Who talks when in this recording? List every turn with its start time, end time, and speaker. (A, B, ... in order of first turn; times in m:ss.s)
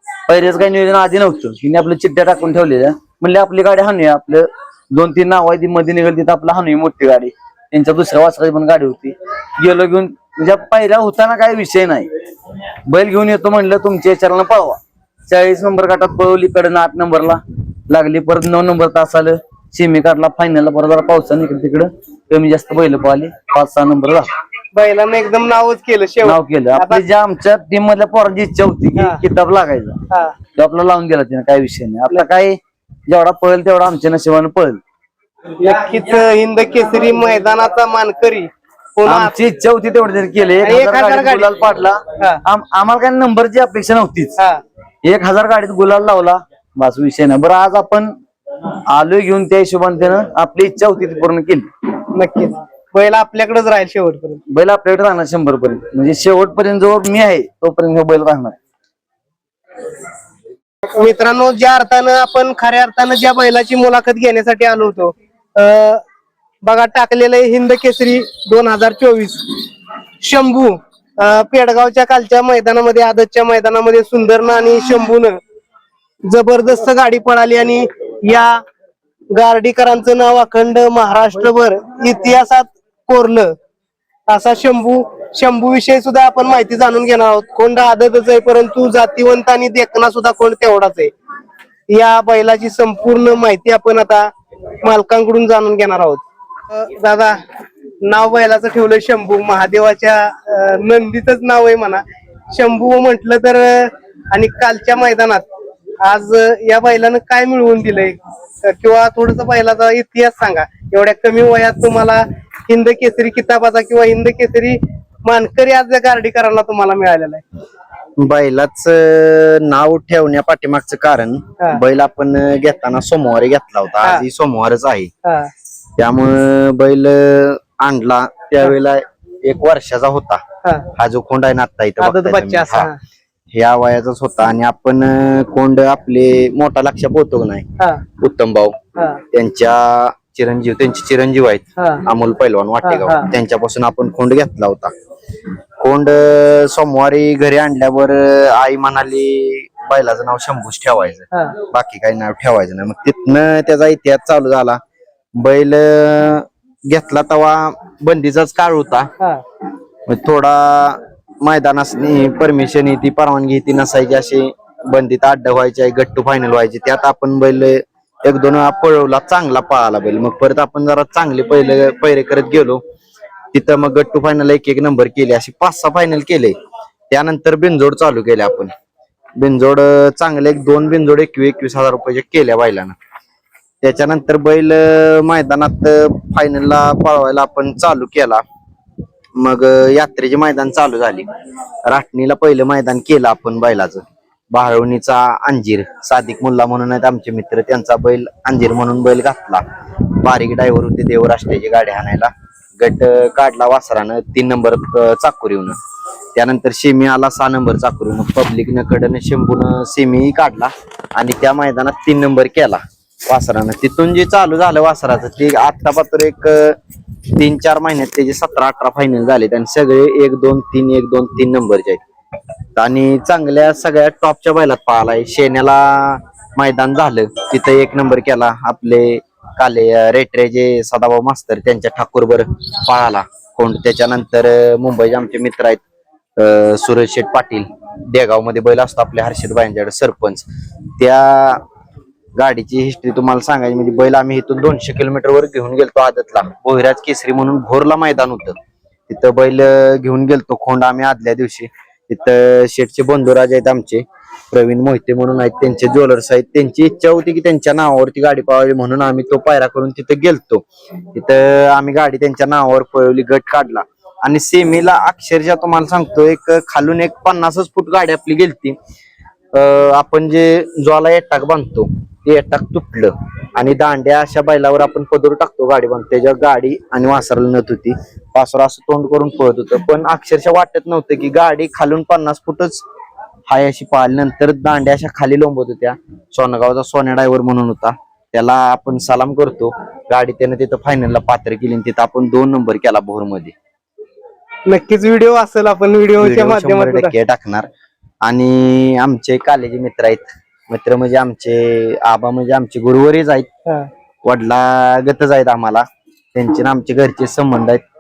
0:00.3-0:12.1 A
0:12.9-0:24.3 A
0:24.7-0:27.0 B
0:26.2-0:30.0 A
0:30.6-0:34.8 A
0:35.6-0:39.4 B
0:39.1-0:44.4 A
0:40.6-0:41.5 B
0:44.4-0:44.6 B
0:45.0-0:48.1 A
0:48.9-0:51.7 A
0:52.1-0:54.4 B
0:54.5-0:58.6 A
1:00.9-1:06.0 B
1:06.6-1:09.5 B
1:10.2-1:15.4 B
1:16.3-1:18.6 B
1:19.3-1:23.5 B
1:24.3-1:31.1 B
1:31.9-1:34.3 B
1:34.8-1:37.4 B
1:38.0-1:45.5 B
1:46.0-1:57.4 B
1:58.2-2:05.1 C
2:05.2-2:05.5 B
2:06.0-2:10.4 C
2:11.0-2:12.9 C
2:12.0-2:13.0 B
2:13.5-2:17.7 C
2:18.2-2:18.8 C
2:19.3-2:24.9 C
2:21.8-2:22.0 B
2:22.8-2:23.3 B
2:25.8-2:34.8 C
2:35.4-2:39.1 C
2:40.1-2:52.8 C
2:53.5-2:56.6 C
2:57.1-2:58.7 C
2:59.4-3:03.0 C
3:03.8-3:08.4 C
3:09.4-3:11.3 C
3:11.9-3:19.6 C
3:20.2-3:25.8 C
3:26.4-3:36.8 C
3:37.4-3:42.0 C
3:42.8-3:55.8 C
3:56.4-4:00.5 C
4:01.0-4:01.6 C
4:02.4-4:08.6 C
4:09.1-4:28.8 C
4:29.5-4:42.8 C
4:43.5-4:53.6 C
4:54.7-4:57.1 B
4:56.2-4:57.7 C
4:58.2-5:03.5 C
5:04.2-5:07.8 C